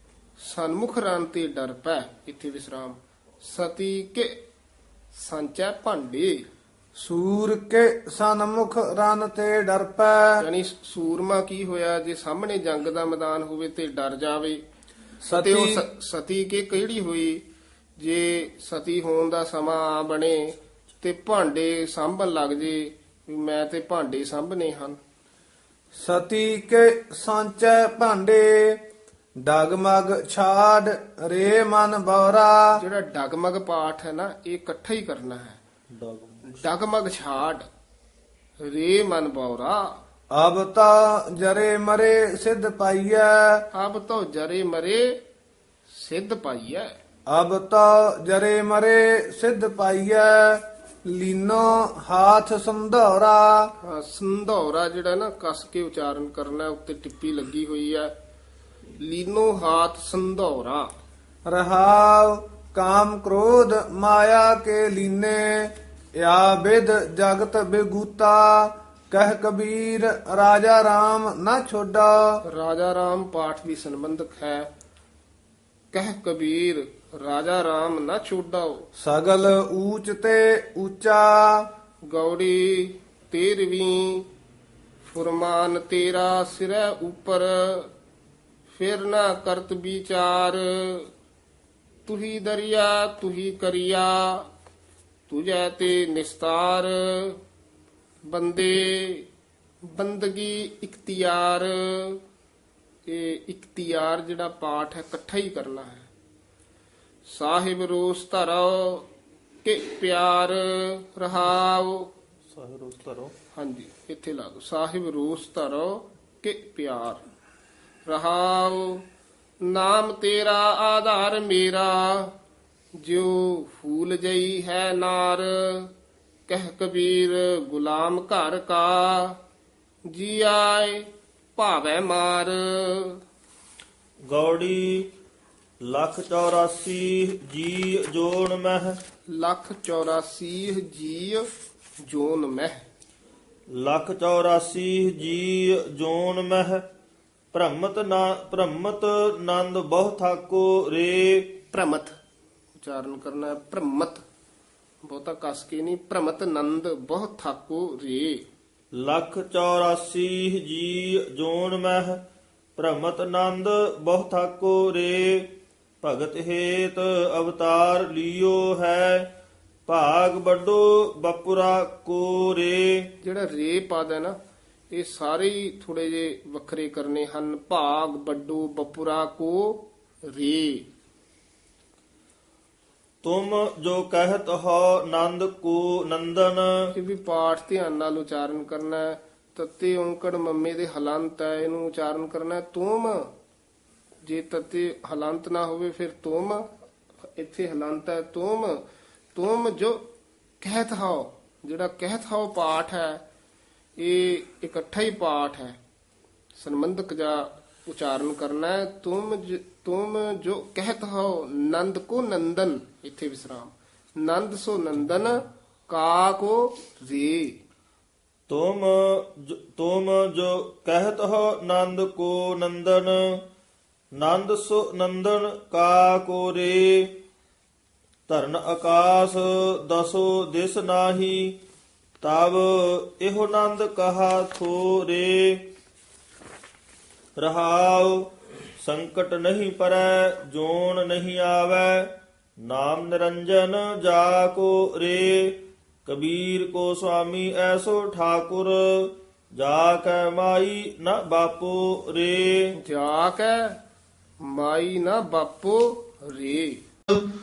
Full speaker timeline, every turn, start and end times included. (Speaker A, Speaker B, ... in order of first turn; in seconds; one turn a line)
Speaker A: 0.4-4.3
Speaker A: 5.1-6.5
Speaker B: 7.0-10.4
Speaker A: 10.4-14.6
Speaker B: 15.2-15.8
Speaker A: 15.3-17.4
Speaker A: 18.0-25.0
Speaker B: 26.0-28.8
Speaker B: 29.4-32.8
Speaker A: 32.8-35.6
Speaker C: 35.9-36.6
Speaker A: 36.5-37.6
Speaker A: 38.6-39.9
Speaker B: 40.3-43.6
Speaker A: 43.7-45.1
Speaker A: 45.9-47.0
Speaker B: 47.3-53.7
Speaker A: 53.8-58.1
Speaker A: 59.0-60.9
Speaker B: 61.5-72.4
Speaker A: 72.5-74.7
Speaker A: 75.9-78.9
Speaker B: 79.0-81.7
Speaker A: 82.1-84.3
Speaker A: 85.0-87.9
Speaker A: 88.7-91.1
Speaker A: 92.0-94.5
Speaker A: 95.3-97.4
Speaker A: 98.3-99.3
Speaker A: 99.8-102.2
Speaker A: 103.1-106.1
Speaker A: 107.3-109.1
Speaker A: 109.6-112.1
Speaker C: 112.5-113.3
Speaker A: 113.5-117.2
Speaker A: 118.0-119.0
Speaker A: 119.6-122.3
Speaker A: 123.0-125.9
Speaker A: 126.5-129.4
Speaker A: 130.1-133.2
Speaker C: 134.3-135.1
Speaker C: 135.8-139.0
Speaker A: 139.3-141.5
Speaker A: 142.0-142.8
Speaker C: 143.7-146.8
Speaker C: 147.5-151.5
Speaker A: 151.7-152.1
Speaker A: 152.7-154.2
Speaker A: 155.0-158.4
Speaker C: 158.9-162.2
Speaker C: 162.8-169.3
Speaker C: 169.9-173.1
Speaker A: 173.2-174.3
Speaker A: 174.9-180.8
Speaker C: 183.2-186.7
Speaker A: 186.9-193.2
Speaker A: 194.2-196.6
Speaker A: 197.3-198.8
Speaker A: 199.3-200.0
Speaker A: 200.6-203.2
Speaker A: 204.0-205.8
Speaker A: 206.6-217.5
Speaker C: 218.5-223.3
Speaker C: 224.2-227.2
Speaker C: 228.3-231.6
Speaker C: 232.2-235.6
Speaker C: 237.4-238.3
Speaker C: 238.8-242.1
Speaker C: 242.6-252.6
Speaker A: 252.8-253.8
Speaker A: 254.4-256.8